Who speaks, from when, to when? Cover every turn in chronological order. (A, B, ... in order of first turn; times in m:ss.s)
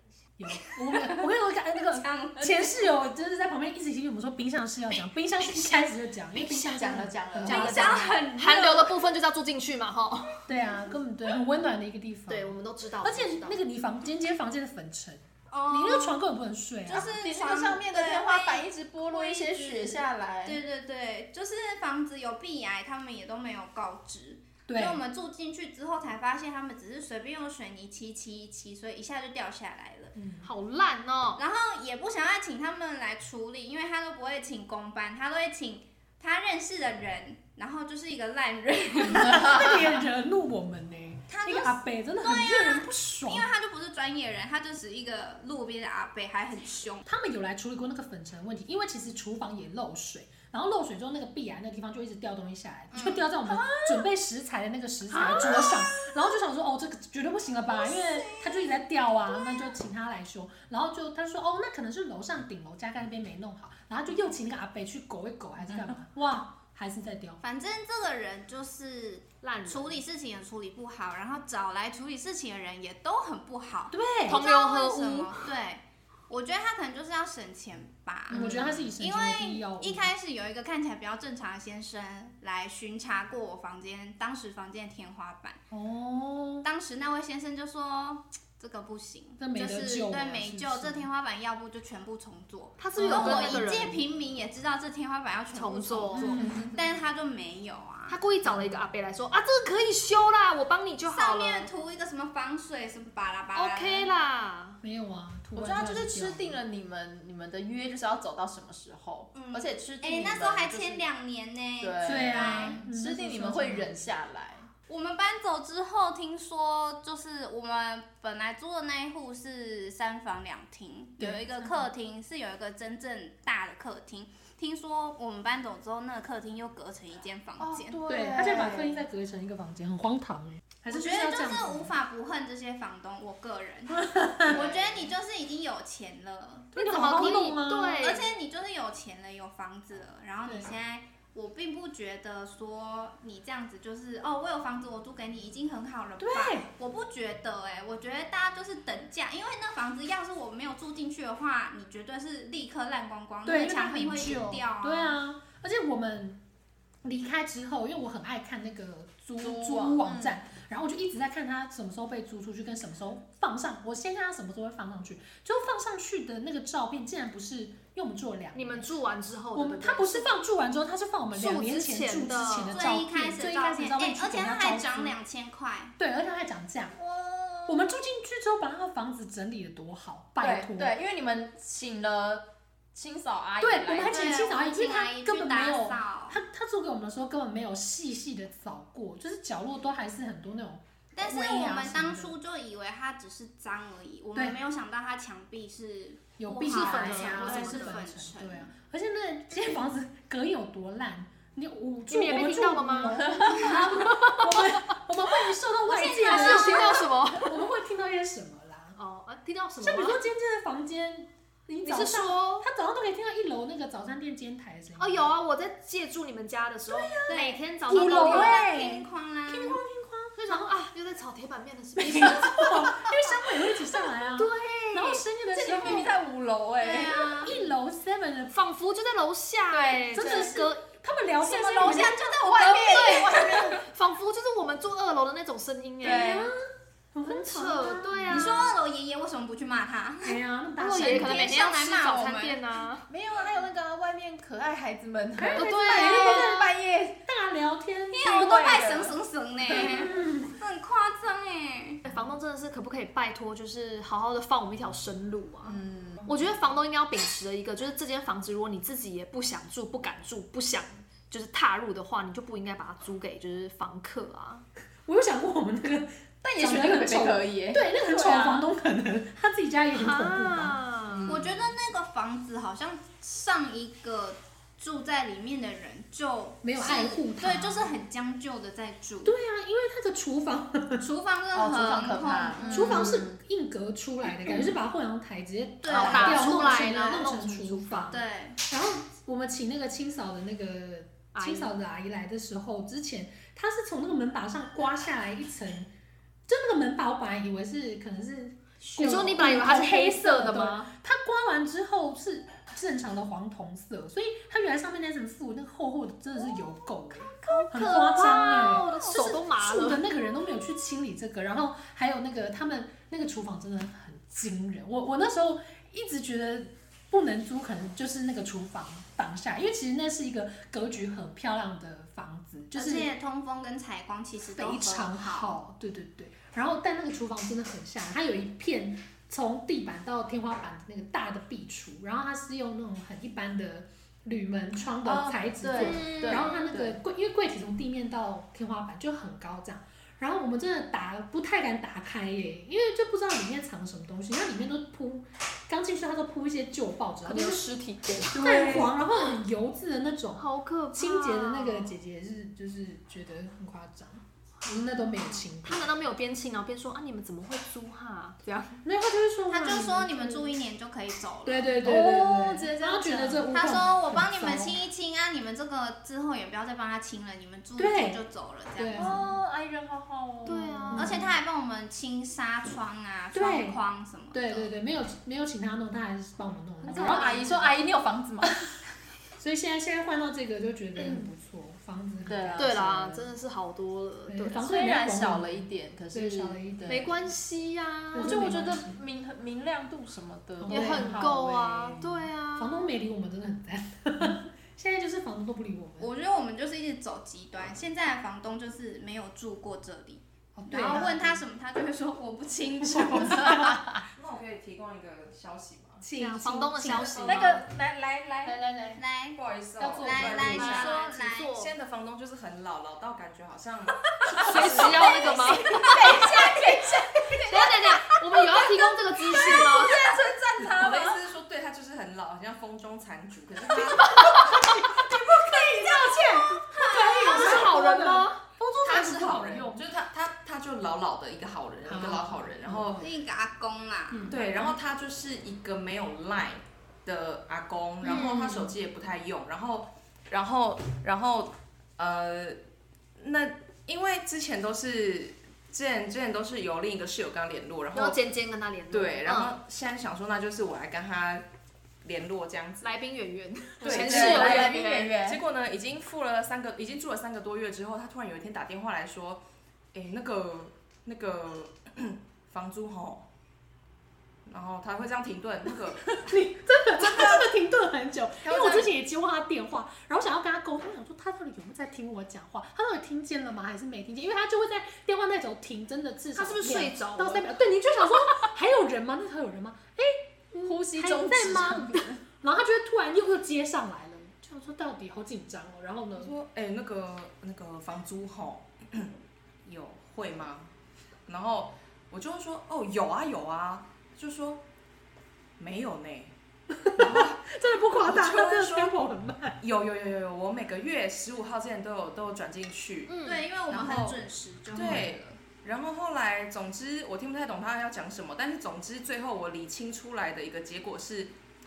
0:00.4-0:08.1 A
0:00.9-0:02.8 B
0:06.3-0:07.8 C
0:07.4-0:10.5 D
0:07.5-0:09.0 B
0:10.5-0:17.2 A
0:12.3-0:13.6 D
0:15.5-0:16.2 B
0:16.8-0:30.1 B
0:17.0-0:20.6 C
0:24.7-0:25.0 A
0:30.1-0:30.5 A
0:30.4-0:31.4 D
0:31.4-0:39.8 B
0:39.0-0:43.5 A
0:41.3-0:47.0 B
0:47.0-1:07.4 A
0:52.9-0:53.4 B
0:55.2-0:55.6 D
1:07.4-1:25.6 B
1:09.4-1:10.0 D
1:13.9-1:14.4 A
1:14.3-1:15.5 D
1:18.3-1:20.1 A
1:18.3-1:18.8 C
1:25.7-1:26.7 A
1:26.6-1:38.2 B
1:29.4-1:31.1 A
1:32.8-1:34.0 D
1:33.0-1:33.7 A
1:35.5-1:36.4 D
1:36.2-1:36.7 A
1:36.4-1:36.7 C
1:38.1-1:41.7 D
1:38.4-1:38.8 A
1:41.1-1:44.1 B
1:43.5-1:44.8 D
1:44.8-1:46.6 A
1:45.5-1:51.0 C
1:49.3-1:52.8 B
1:51.8-1:54.7 C
1:52.0-1:54.0 A
1:54.9-2:08.0 B
2:01.2-2:01.9 A
2:07.6-2:09.0 C
2:08.1-2:11.9 A
2:10.9-2:35.2 B
2:13.9-2:14.6 A
2:14.5-2:15.1 C
2:16.7-2:18.1 A
2:16.8-2:18.3 D
2:20.4-2:20.7 A
2:26.2-2:26.7 A
2:33.4-2:36.4 A
2:37.0-2:48.9 A
2:39.4-2:40.4 C
2:48.5-2:50.3 D
2:49.5-2:55.2 A
2:51.3-2:52.9 D
2:52.7-2:55.9 B
2:56.0-2:57.0 A
2:57.0-2:57.9 C
2:57.6-3:01.0 A
3:00.4-3:04.3 C
3:03.6-3:12.3 A
3:04.0-3:06.4 B
3:11.1-3:18.7 B
3:16.4-3:29.0 A
3:16.6-3:18.0 D
3:17.2-3:17.5 C
3:22.1-3:24.8 D
3:23.2-3:23.7 C
3:25.8-3:27.1 B
3:26.0-3:27.5 D
3:29.0-3:30.2 D
3:29.8-3:35.3 A
3:31.8-3:32.7 D
3:35.0-3:38.6 D
3:36.9-3:37.2 A
3:37.3-3:39.8 B
3:37.9-3:38.8 A
3:39.5-3:40.8 A
3:40.4-3:43.4 D
3:42.0-3:46.1 A
3:44.4-3:44.7 D
3:44.6-3:47.5 C
3:46.8-3:47.6 B
3:47.3-3:48.6 A
3:48.5-3:50.8 D
3:49.7-3:50.7 C
3:50.1-3:52.2 A
3:51.4-3:53.6 B
3:51.8-3:53.8 C
3:52.5-3:56.4 D
3:56.0-3:56.5 C
3:56.0-3:58.7 A
3:57.2-3:58.7 D
3:58.3-4:00.4 B
4:00.2-4:01.6 A
4:00.8-4:03.1 D
4:00.9-4:02.6 B
4:03.1-4:07.2 C
4:05.4-4:08.8 A
4:05.6-4:06.4 D
4:08.1-4:12.0 B
4:08.2-4:09.2 C
4:09.7-4:10.6 A
4:09.7-4:10.0 C
4:12.0-4:24.6 D
4:15.6-4:16.3 C
4:25.0-4:30.8 A
4:26.4-4:28.7 C
4:29.9-4:31.4 D
4:31.1-4:31.5 C
4:31.3-4:39.3 B
4:36.6-4:37.9 A
4:39.2-4:41.0 A
4:41.0-4:43.2 B
4:41.5-4:43.4 C
4:42.7-4:55.9 A
4:45.8-4:47.2 B
4:45.9-4:47.3 C
4:46.0-4:48.1 D
4:48.1-4:48.6 B
4:51.3-4:51.7 D
4:56.5-5:23.1 A
4:58.9-5:00.9 D
5:07.3-5:09.2 B
5:07.4-5:10.0 D
5:22.7-5:25.5 B
5:24.5-5:47.7 A
5:35.0-5:37.0 C
5:35.8-5:36.6 D
5:47.2-5:49.4 D
5:48.3-5:55.9 A
5:50.4-5:51.9 D
5:54.6-5:58.7 D
5:58.8-6:00.6 A
5:59.5-6:01.8 B
6:01.4-6:04.8 A
6:01.8-6:03.7 C
6:03.5-6:09.1 B
6:07.8-6:08.2 A
6:08.8-6:09.3 A
6:09.0-6:11.0 C
6:10.4-6:11.2 D
6:10.8-6:11.3 A
6:11.0-6:14.7 B
6:13.3-6:13.8 A
6:14.3-6:17.7 A
6:16.8-6:18.8 C
6:16.9-6:17.6 D
6:19.4-6:22.8 A
6:21.0-6:21.2 C
6:22.2-6:23.3 C
6:22.6-6:24.7 D
6:24.3-6:27.2 A
6:24.5-6:27.1 C
6:26.9-6:28.6 D
6:28.1-6:28.9 A
6:28.1-6:32.2 C
6:30.6-6:31.3 A
6:30.7-6:32.9 D
6:32.5-6:36.1 A
6:36.0-6:43.6 B
6:40.5-6:41.4 A
6:43.5-6:43.8 C
6:44.0-6:46.0 E
6:46.0-6:47.6 D
6:46.2-6:47.6 A
6:46.8-6:47.6 C
6:47.0-6:48.6 E
6:48.4-6:49.0 C
6:48.9-6:49.4 B
6:49.3-7:05.1 E
6:49.9-6:51.5 B
6:50.0-6:51.7 D
6:54.3-6:56.2 D
6:54.7-6:56.8 B
6:56.1-6:56.7 C
6:57.5-7:00.2 D
7:04.0-7:04.8 D
7:04.9-7:09.8 A
7:05.4-7:06.3 C
7:06.7-7:08.4 D
7:06.8-7:07.6 B
7:07.3-7:07.7 E
7:08.8-7:13.1 E
7:11.8-7:13.0 A
7:13.0-7:14.3 B
7:14.1-7:14.7 A
7:14.3-7:22.6 E
7:18.0-7:18.7 A
7:23.2-7:28.2 E
7:27.9-7:29.5 D
7:28.9-7:31.4 E
7:32.0-7:32.9 E
7:32.8-7:35.1 D
7:33.8-7:43.2 E
7:33.8-7:35.4 C
7:44.4-7:46.3 E
7:46.1-8:06.3 A
7:48.5-7:48.8 E
7:56.3-7:58.4 D
8:00.6-8:02.2 C
8:06.2-8:09.1 E
8:09.6-8:10.7 E
8:11.3-8:14.6 E
8:15.6-8:16.3 E
8:16.7-8:19.6 A
8:17.0-8:17.4 E
8:18.0-8:18.9 E
8:19.6-8:24.2 E
8:23.1-8:23.4 D
8:23.2-8:25.4 B
8:24.7-8:31.3 E